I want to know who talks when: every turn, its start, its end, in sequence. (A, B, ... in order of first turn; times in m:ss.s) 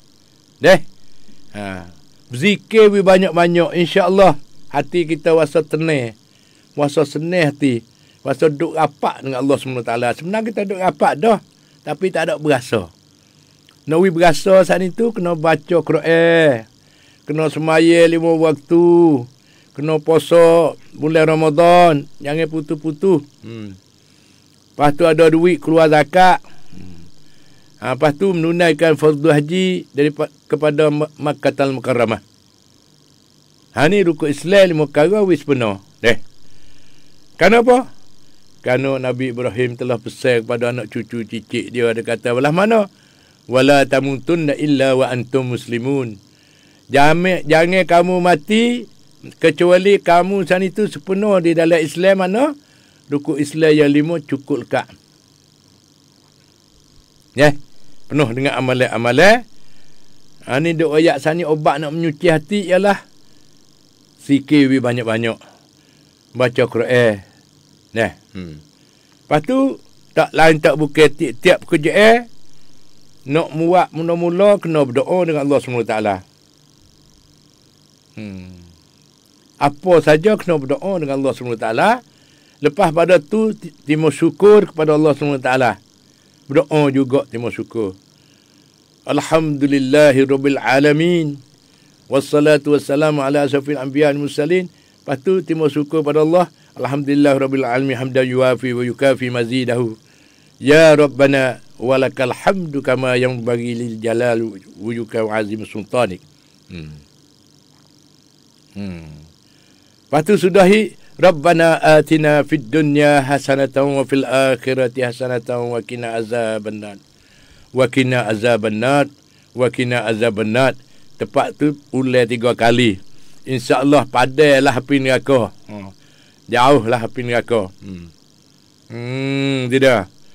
0:01.5-0:06.1 A
0:06.8-0:12.9 A
0:13.9-0:16.6 A
0:17.3-0:23.8 A
0:24.8-0:26.4 A
0:27.8-0:32.2 A
0:33.8-0:36.2 A
0:37.4-0:37.8 A
0:38.6-0:42.9 A
0:43.5-0:46.2 A
0:46.9-0:48.9 A
0:49.4-0:52.5 A
0:53.1-0:54.9 A
0:58.1-0:59.4 A
1:00.5-1:03.0 A
1:04.2-1:05.4 A
1:06.4-1:07.2 A
1:07.9-1:08.6 A
1:09.3-1:12.2 A
1:13.3-1:16.2 A
1:18.2-1:18.6 A
1:19.6-1:22.0 A
1:22.6-1:25.8 A
1:26.5-1:28.0 A
1:29.1-1:31.4 A
1:32.1-1:40.0 A
1:40.6-1:47.0 A
1:48.8-1:49.2 A
1:50.1-1:57.0 A
1:57.8-2:05.9 A
2:06.5-2:08.1 A
2:08.9-2:10.1 A